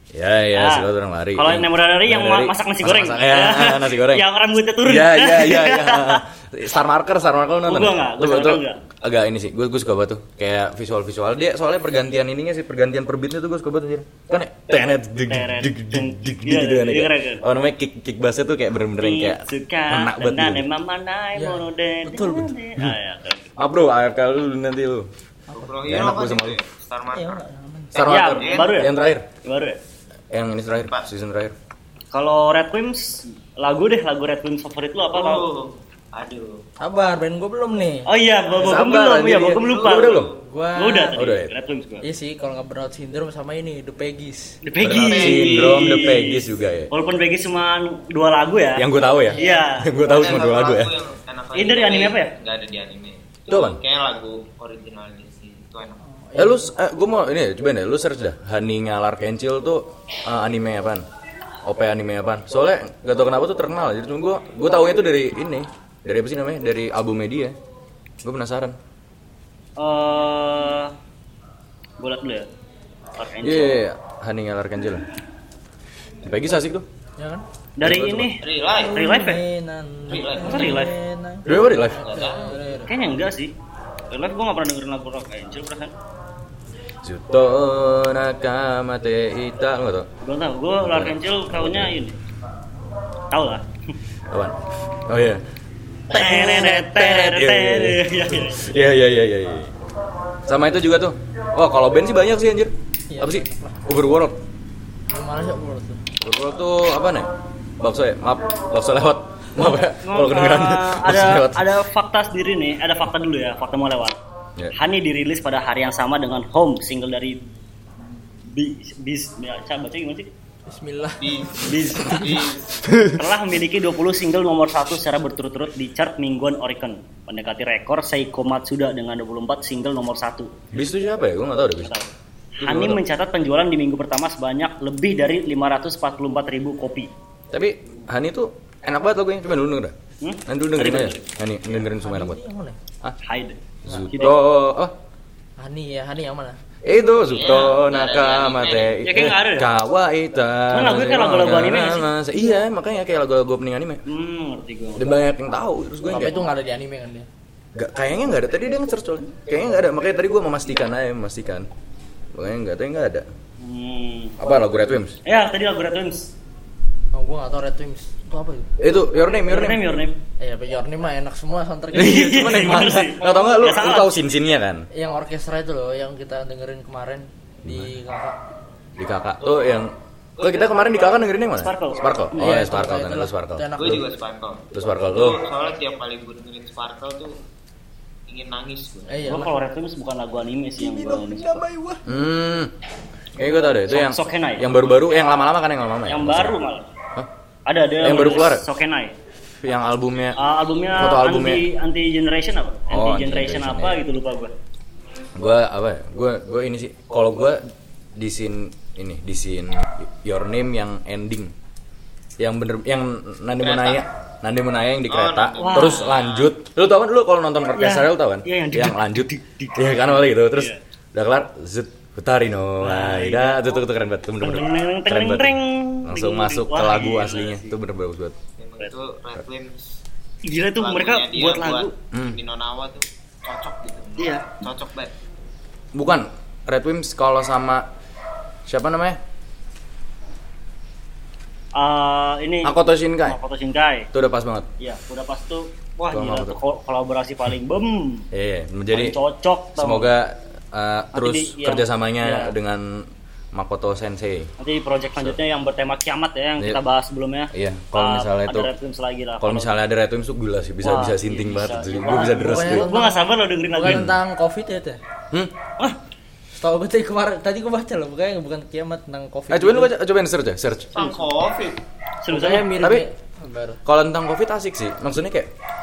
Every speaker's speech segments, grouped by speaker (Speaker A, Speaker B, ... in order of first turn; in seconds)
Speaker A: 0.1-4.3, 4.8-20.7, 23.6-25.1, 25.9-26.6, 27.9-29.3, 30.3-31.6, 38.6-40.3, 41.1-41.5, 44.8-46.9, 48.8-50.9, 53.5-53.8, 56.4-61.0, 61.6-67.6, 68.2-68.8, 73.4-75.1, 76.2-76.9, 77.8-78.3, 81.5-82.0, 87.0-90.1, 90.8-92.0, 94.3-95.4, 96.1-99.7, 100.5-104.4, 106.2-107.3, 107.8-111.7, 122.9-123.2, 130.7-131.9, 132.6-133.0, 137.5-139.9, 140.5-142.4, 143.8-144.9, 146.8-154.0, 155.0-156.4, 157.8-161.7, 162.3-163.3, 164.4-165.2, 168.8-169.8, 171.9-174.9, 177.7-177.9, 179.0-184.0, 184.7-185.4, 191.2-192.7, 193.4-196.6, 198.0-198.7, 199.6-200.4, 200.9-201.6, 202.9-204.0, 205.3-211.5, 212.4-228.3, 232.1-232.4, 235.9-237.9, 238.7-239.2, 242.6-243.4, 244.1-244.7, 246.1-246.6, 248.3-249.2, 249.8-254.5, 257.5-258.7, 259.4-262.9, 263.8-264.2, 269.5-271.2, 272.8-273.1, 273.9-275.5
Speaker B: 0.6-6.2, 7.7-8.8, 14.7-17.4, 19.0-23.5, 28.0-29.8, 32.1-35.5, 38.0-42.1, 44.6-50.5, 51.5-52.3, 69.8-71.0, 72.0-72.5, 73.2-73.8, 77.8-79.4, 80.2-80.9, 82.9-83.5, 84.1-85.9, 90.2-92.2, 93.3-93.7, 96.1-99.0, 110.0-114.2, 114.7-117.4, 118.5-120.3, 121.7-122.3, 123.1-130.5, 131.8-137.1, 140.2-141.3, 143.2-144.4, 149.0-149.7, 150.7-152.1, 154.1-155.1, 163.6-164.4, 165.2-166.3, 169.4-170.2, 171.9-174.2, 181.5-182.4, 189.3-191.6, 193.9-194.7, 196.1-196.9, 197.7-199.2, 200.4-204.5, 215.6-216.1, 217.8-220.8, 222.8-223.8, 224.4-227.8, 230.4-231.9, 234.2-234.5, 241.8-244.1, 244.8-248.3, 248.9-250.1, 251.1-252.5, 254.6-259.8, 260.8-264.1, 272.2-272.8
Speaker C: 21.4-22.5, 27.1-27.9, 36.8-38.1, 40.4-41.2, 42.0-44.6, 56.3-56.7, 77.2-77.5, 78.7-82.9, 103.1-104.0, 105.1-106.0, 120.7-122.5, 141.8-142.8, 145.6-146.6, 156.1-157.3, 167.1-168.7, 170.4-172.7, 174.9-178.4, 182.3-184.0, 189.1-189.5, 191.4-191.9, 262.2-265.0, 266.6-269.9, 272.3-273.8
Speaker D: 25.6-28.9, 35.1-36.6, 38.8-40.4, 44.8-46.3, 50.0-56.0, 78.4-79.2, 80.1-80.9, 81.5-82.6, 121.2-122.8, 147.3-149.1, 180.4-181.0, 183.8-187.3, 188.3-189.4, 213.6-214.1, 215.1-216.5, 228.6-229.9, 230.8-235.1, 270.9-271.8